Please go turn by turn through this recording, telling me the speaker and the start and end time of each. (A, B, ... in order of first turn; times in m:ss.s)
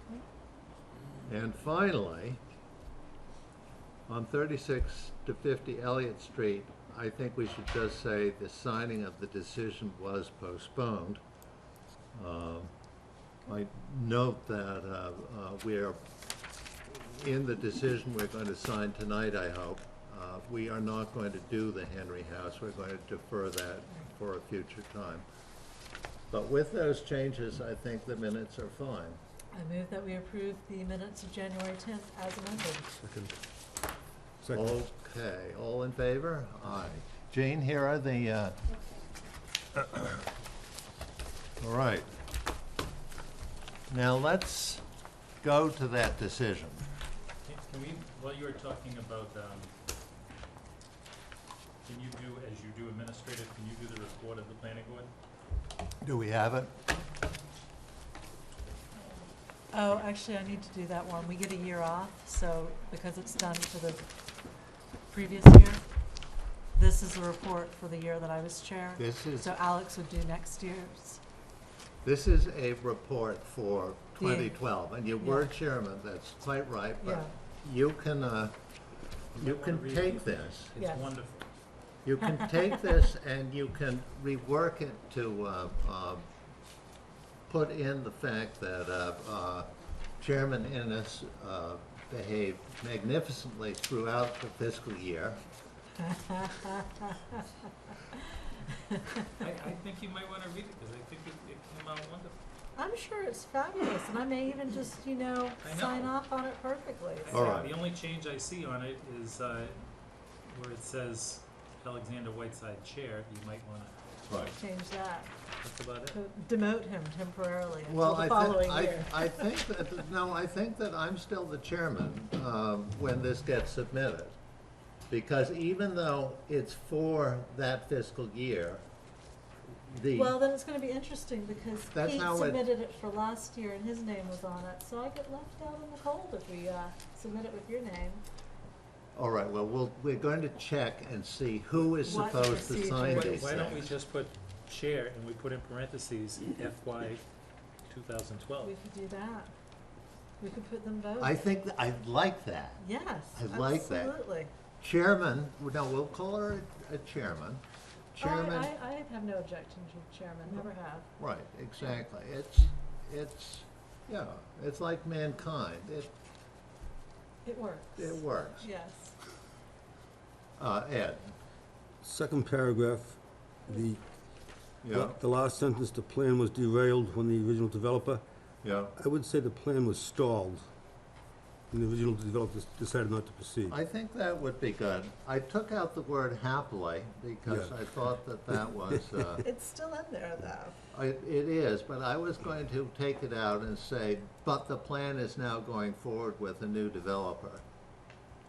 0:01.3-0:02.4 A
0:04.1-0:11.2 A
0:12.1-0:12.7 A
0:13.5-0:16.0 A
0:16.9-0:25.2 A
0:26.3-0:29.2 A
0:29.5-0:32.9 B
0:33.0-0:33.4 C
0:34.4-0:34.8 C
0:34.5-0:38.6 A
0:39.7-0:40.2 A
0:41.6-0:42.1 A
0:43.9-0:44.8 A
0:45.4-0:46.8 A
0:47.4-0:49.7 D
0:51.8-0:55.1 D
0:56.0-0:56.7 A
0:59.7-1:04.0 B
1:05.1-1:05.8 B
1:06.7-1:11.2 B
1:09.0-1:09.5 A
1:12.0-1:18.6 A
1:14.2-1:14.5 B
1:15.2-1:15.5 B
1:17.0-1:17.3 B
1:19.3-1:20.7 A
1:19.4-1:21.5 D
1:20.8-1:21.1 B
1:22.0-1:26.3 A
1:22.3-1:22.9 B
1:27.5-1:35.4 A
1:36.0-1:37.5 B
1:38.1-1:39.3 B
1:39.4-1:42.4 D
1:42.8-1:47.4 B
1:45.6-1:46.1 D
1:47.2-1:49.8 D
1:47.3-1:47.7 A
1:50.5-1:54.0 D
1:54.3-1:54.5 A
1:54.6-1:55.3 B
1:55.6-1:56.2 D
1:56.1-1:59.4 B
1:57.9-2:04.3 A
2:05.1-2:08.8 A
2:09.8-2:10.4 A
2:10.1-2:18.2 B
2:11.9-2:12.6 A
2:19.2-2:23.9 A
2:22.0-2:23.7 B
2:23.0-2:27.2 D
2:27.9-2:28.7 D
2:28.6-2:29.5 B
2:30.4-2:31.4 B
2:31.2-2:34.2 A
2:32.8-2:34.5 B
2:34.8-2:37.6 A
2:38.1-2:38.7 A
2:38.2-2:41.1 B
2:41.2-2:46.1 A
2:47.4-2:49.2 B
2:48.0-2:48.6 A
2:50.6-2:51.3 A
2:52.0-2:54.0 C
2:54.8-2:55.2 A
2:54.9-2:58.2 C
2:58.6-2:58.9 A
2:58.9-3:00.7 C
3:01.7-3:03.8 C
3:03.7-3:09.4 A
3:09.4-3:10.8 B
3:10.9-3:17.6 A